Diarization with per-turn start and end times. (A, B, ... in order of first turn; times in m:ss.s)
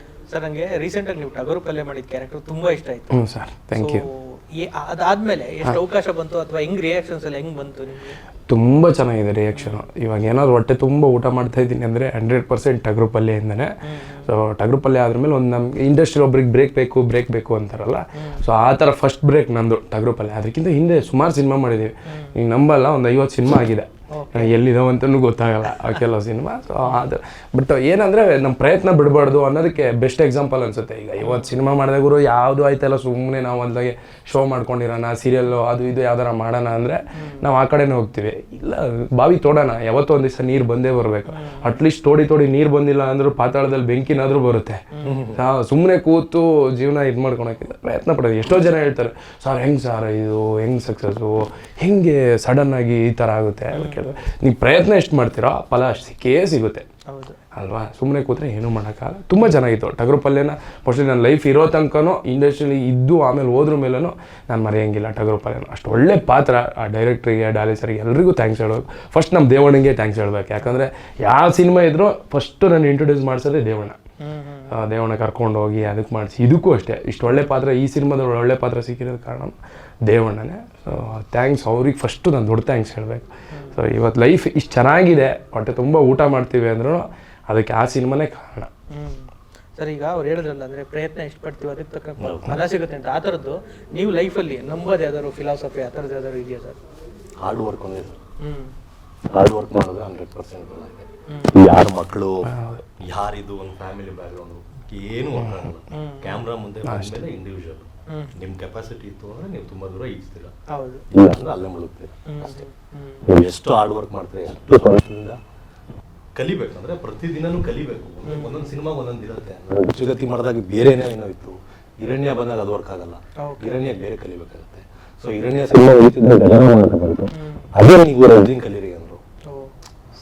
0:00.3-0:03.1 A
0:03.1-0:04.0 B
0:03.8-0:08.2 A
0:08.5-0:44.8 B
0:09.6-0:09.8 A
0:13.8-0:14.3 A
0:18.2-0:18.4 A
0:22.1-0:22.4 A
0:24.1-0:24.5 A
0:31.2-0:31.6 A
0:37.2-0:37.5 A
0:41.3-0:41.8 A
0:44.9-0:45.2 A
0:45.0-0:45.4 C
0:45.4-0:56.8 B
0:53.7-0:54.2 A
0:57.1-0:57.4 A
0:57.5-1:14.0 B
1:14.2-1:14.8 A
1:14.7-1:19.6 B
1:20.1-1:28.7 B
1:23.5-1:23.8 A
1:28.9-1:36.8 A
1:32.2-1:32.6 C
1:37.4-1:38.2 C
1:38.4-1:38.7 A
1:39.3-1:42.5 C
1:41.3-1:41.6 A
1:42.4-1:42.8 B
1:43.0-1:50.5 C
1:45.4-1:45.7 B
1:45.9-1:46.4 A
1:46.8-1:47.3 B
1:48.1-1:48.4 A
1:50.7-1:51.1 A
1:51.1-1:52.6 C
1:52.3-1:53.2 A
1:53.3-1:55.4 C
1:56.4-2:09.2 C
1:58.3-1:58.8 A
2:03.4-2:03.8 A
2:07.3-2:07.7 A
2:09.5-2:09.7 A